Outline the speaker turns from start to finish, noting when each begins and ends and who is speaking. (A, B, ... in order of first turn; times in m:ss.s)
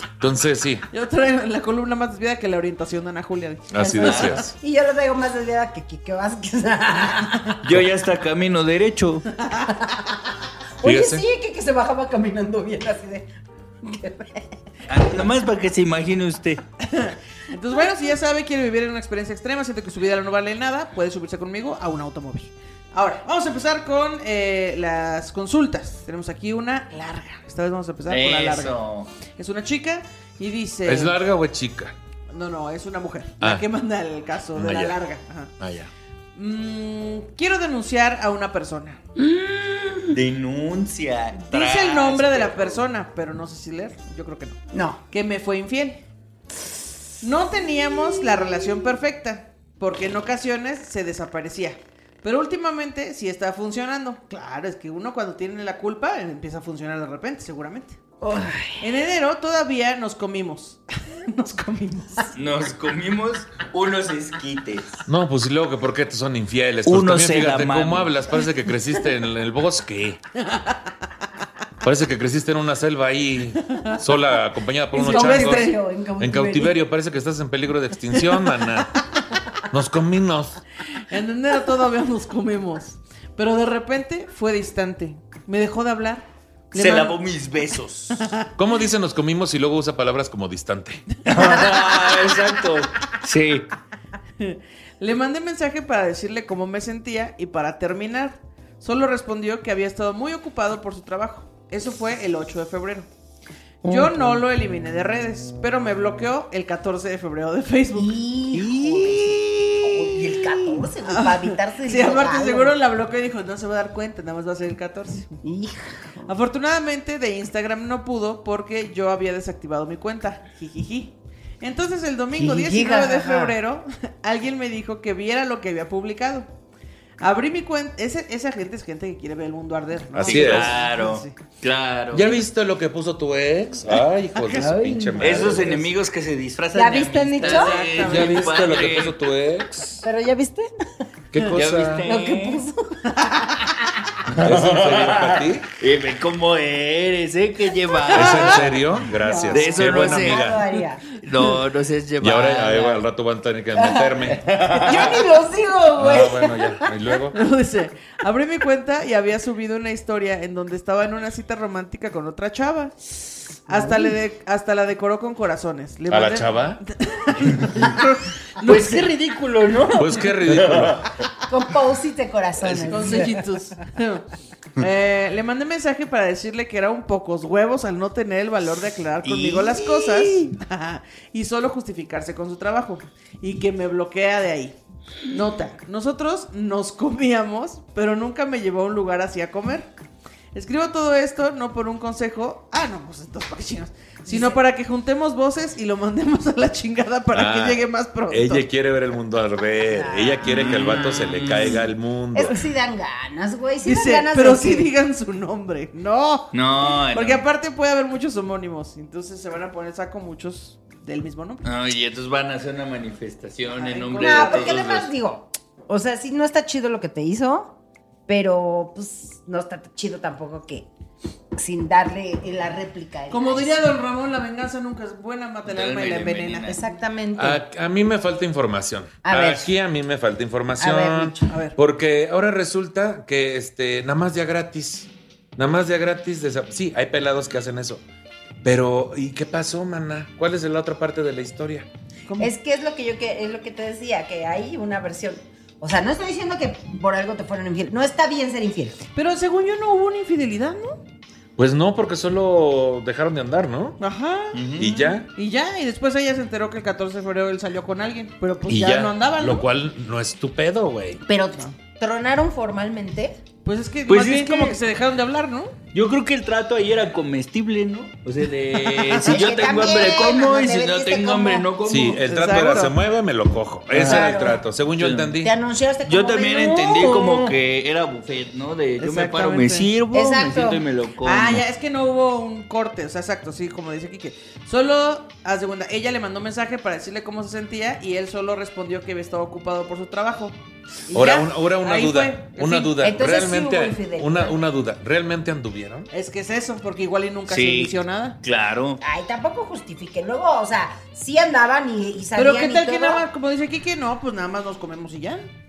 0:00.2-0:00.8 A
0:00.9-0:04.3 B
0:03.7-0:04.5 A
0:03.8-0:07.6 C
0:07.6-0:09.3 D
0:10.8-0:13.3 C
0:10.8-0:11.2 A
0:13.8-0:14.5 C
0:14.9-0:16.6 D
0:16.8-0:31.2 B
0:28.1-0:29.1 D
0:30.8-0:31.9 A
0:32.3-0:35.5 B
0:34.6-0:35.0 A
0:35.6-0:35.9 A
0:36.4-0:39.0 B
0:39.3-0:40.0 C
0:40.1-0:42.8 D
0:41.4-0:44.6 B
0:44.7-0:45.0 C
0:45.1-0:46.0 B
0:47.2-0:58.0 B
0:48.2-0:48.8 C
0:58.2-0:58.8 C
0:58.8-1:02.3 B
1:02.4-1:05.0 D
1:05.1-1:10.2 A
1:06.8-1:08.1 D
1:10.5-1:10.8 B
1:11.8-1:19.0 A
1:13.7-1:14.0 B
1:14.9-1:15.8 B
1:14.9-1:16.7 C
1:19.7-1:20.6 A
1:21.1-1:27.2 B
1:26.7-1:28.2 D
1:28.6-1:31.0 A
1:31.2-1:33.7 D
1:31.3-1:31.8 B
1:34.4-1:43.1 B
1:43.8-1:44.4 C
1:43.8-1:55.4 B
1:47.9-1:52.7 C
1:55.4-1:56.3 C
1:56.3-2:06.5 B
2:02.3-2:03.5 C
2:07.2-2:11.4 B
2:10.1-2:10.8 A
2:10.2-2:12.3 D
2:12.1-2:15.8 A
2:14.5-2:15.8 C
2:15.2-2:19.1 D
2:16.7-2:18.3 C
2:17.4-2:18.3 B
2:18.0-2:20.0 A
2:20.0-2:20.7 C
2:21.3-2:22.0 A
2:21.5-2:22.6 D
2:22.0-2:23.0 C
2:23.1-2:23.6 B
2:24.3-2:28.7 D
2:24.4-2:25.7 A
2:28.1-2:28.7 B
2:28.1-2:30.6 A
2:29.1-2:31.0 C
2:29.5-2:30.5 D
2:31.2-2:33.0 D
2:32.2-2:34.4 A
2:33.8-2:36.9 C
2:34.3-2:35.2 D
2:36.0-2:37.4 A
2:37.3-2:42.9 B
2:43.7-2:49.1 B
2:43.7-2:44.1 C
2:46.1-2:46.8 A
2:48.6-2:51.0 D
2:49.9-2:51.0 A
2:51.4-2:53.4 C
2:52.6-2:53.1 D
2:52.8-3:04.8 B
2:59.2-3:00.5 D
3:05.3-3:09.9 B
3:10.5-3:18.6 B
3:14.3-3:14.6 C
3:17.3-3:22.6 A
3:19.9-3:20.8 C
3:20.4-3:21.8 D
3:22.3-3:24.9 C
3:23.8-3:31.6 B
3:26.5-3:27.4 D
3:31.6-3:35.1 D
3:33.7-3:34.8 B
3:34.2-3:37.7 C
3:38.3-3:40.9 C
3:41.6-3:43.8 C
3:43.3-3:46.8 B
3:45.7-3:46.8 D
3:46.7-3:47.6 C
3:47.4-3:58.0 A
3:49.2-3:49.7 C
3:50.8-3:51.5 C
3:51.5-3:51.8 B
3:58.6-4:01.9 A
4:02.4-4:09.0 C
4:09.2-4:11.0 B
4:11.6-4:14.0 A
4:14.0-4:19.6 B
4:14.5-4:15.0 D
4:14.8-4:15.3 A
4:18.7-4:21.2 A
4:21.2-4:23.4 C
4:23.6-4:25.7 B
4:24.1-4:24.8 D
4:25.9-4:32.2 D
4:28.9-4:29.5 B
4:29.2-4:31.7 C
4:31.8-4:35.5 A
4:32.2-4:32.9 B
4:33.9-4:34.4 D
4:34.0-4:34.6 C
4:35.0-4:35.4 D
4:35.4-4:37.5 C
4:36.0-4:41.6 D
4:39.0-4:39.9 B
4:40.1-4:40.8 C
4:41.2-4:50.6 B
4:51.1-4:53.0 B
4:51.1-4:56.1 A
4:53.0-4:54.5 C
4:56.1-4:58.4 B
4:57.5-4:59.0 D
4:59.0-5:03.2 C
5:02.4-5:05.5 B